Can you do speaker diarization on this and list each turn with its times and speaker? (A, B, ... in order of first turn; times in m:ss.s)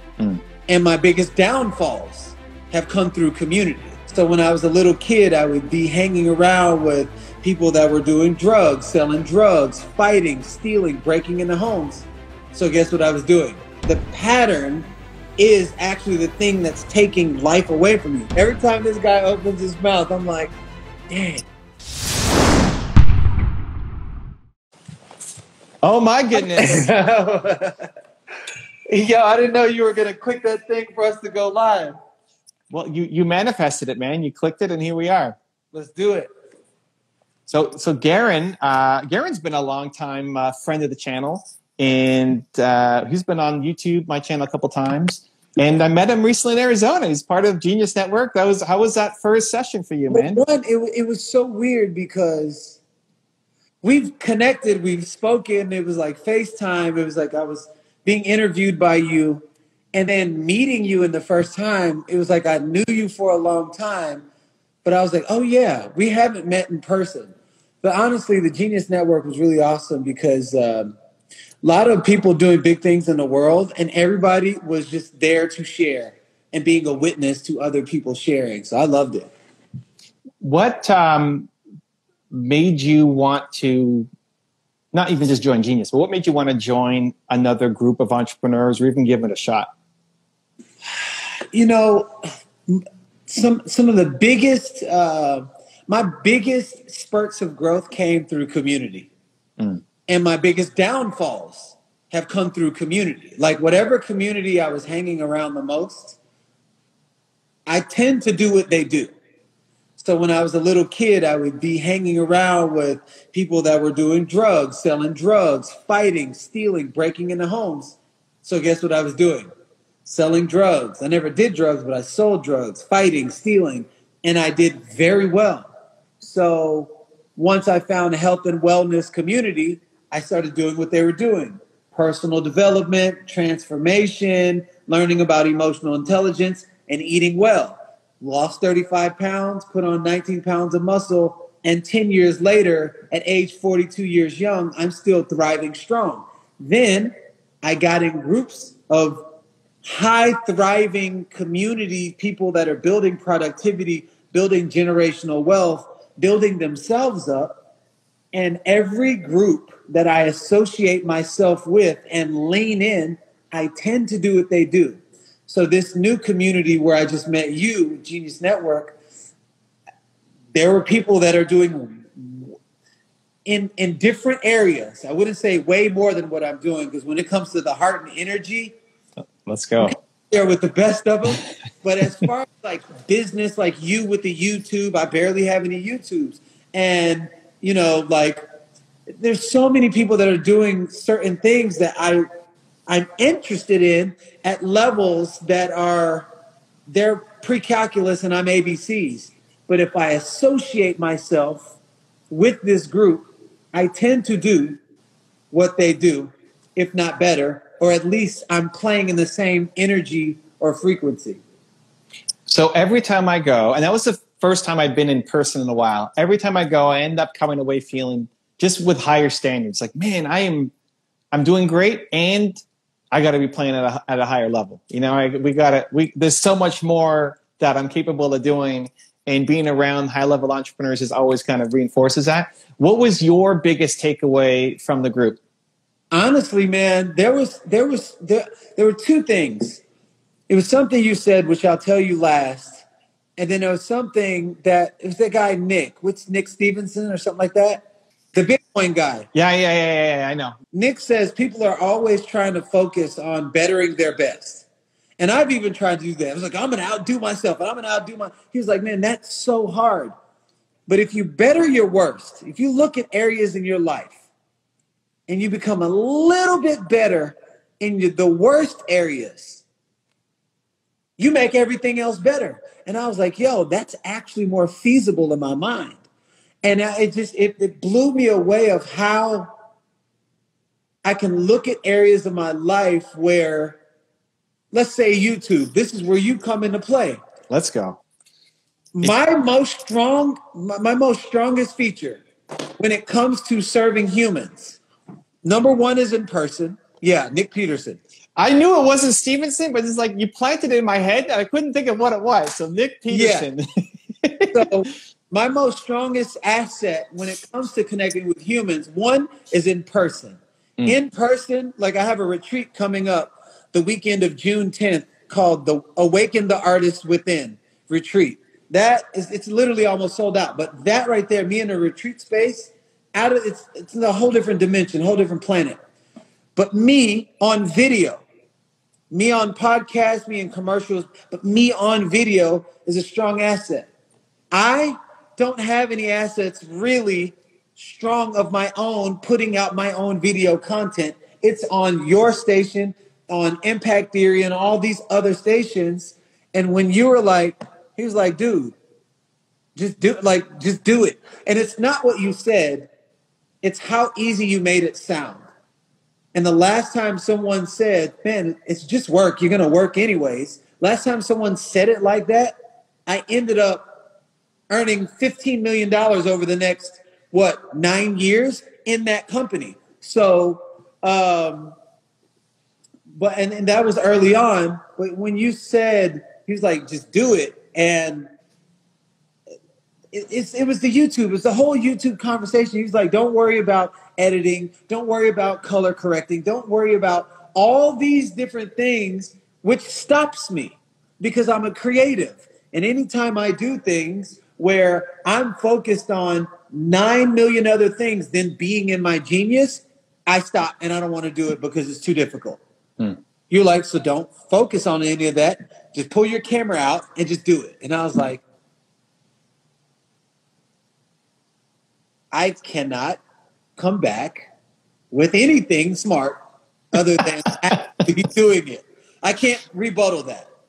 0:00.7-0:14.8 A
0:15.4-0:20.5 A
0:21.1-0:21.4 A
0:25.8-0:26.8 B
0:26.3-0:27.9 A
0:28.9-0:32.0 A
0:32.7-0:35.4 B
0:35.7-0:36.3 A
0:37.5-0:50.4 B
0:50.1-0:52.8 A
0:53.8-0:59.4 A
0:59.9-1:04.3 A
1:04.8-1:11.0 A
1:11.6-1:19.3 A
1:20.4-1:21.5 B
1:22.3-1:24.1 B
1:24.9-1:29.7 B
1:30.8-1:39.1 A
1:40.1-1:46.2 A
1:47.7-1:49.1 A
1:50.0-1:59.5 A
2:00.0-2:05.7 A
2:06.2-2:29.2 A
2:29.8-2:37.6 A
2:38.3-2:49.0 A
2:50.5-2:52.6 A
2:53.4-2:58.7 A
2:59.4-3:00.0 B
2:59.8-3:08.4 A
3:09.1-3:12.2 A
3:12.9-3:16.3 A
3:16.9-3:21.8 A
3:22.3-3:24.8 A
3:25.5-3:31.4 A
3:32.5-3:40.7 B
3:41.3-3:42.6 B
3:43.1-3:55.4 B
3:56.1-3:59.8 A
4:00.5-4:02.8 A
4:03.4-4:07.8 A
4:08.3-4:09.3 A
4:09.3-4:10.5 B
4:10.7-4:14.6 A
4:15.2-4:20.1 A
4:20.9-4:24.2 A
4:25.3-4:29.6 A
4:31.2-4:36.0 A
4:36.6-4:39.5 A
4:41.0-4:43.8 A
4:44.7-4:47.2 A
4:47.5-4:48.0 B
4:48.9-4:52.2 A
4:52.8-4:54.8 A
4:55.4-4:58.0 A
4:58.4-5:03.6 B
5:03.1-5:03.5 A
5:04.2-5:04.5 B
5:04.5-5:25.8 A
5:26.6-5:28.2 A
5:29.1-5:33.9 A
5:34.5-5:48.7 A
5:49.8-5:52.9 A
5:53.6-5:55.5 A
5:56.3-6:02.5 A
6:03.1-6:03.8 A
6:04.7-6:11.8 A
6:13.1-6:18.3 A
6:20.1-6:42.6 A
6:43.5-6:48.4 A
6:52.3-6:53.2 A
6:53.8-6:54.5 A
6:55.1-6:56.4 A
6:56.9-7:00.5 A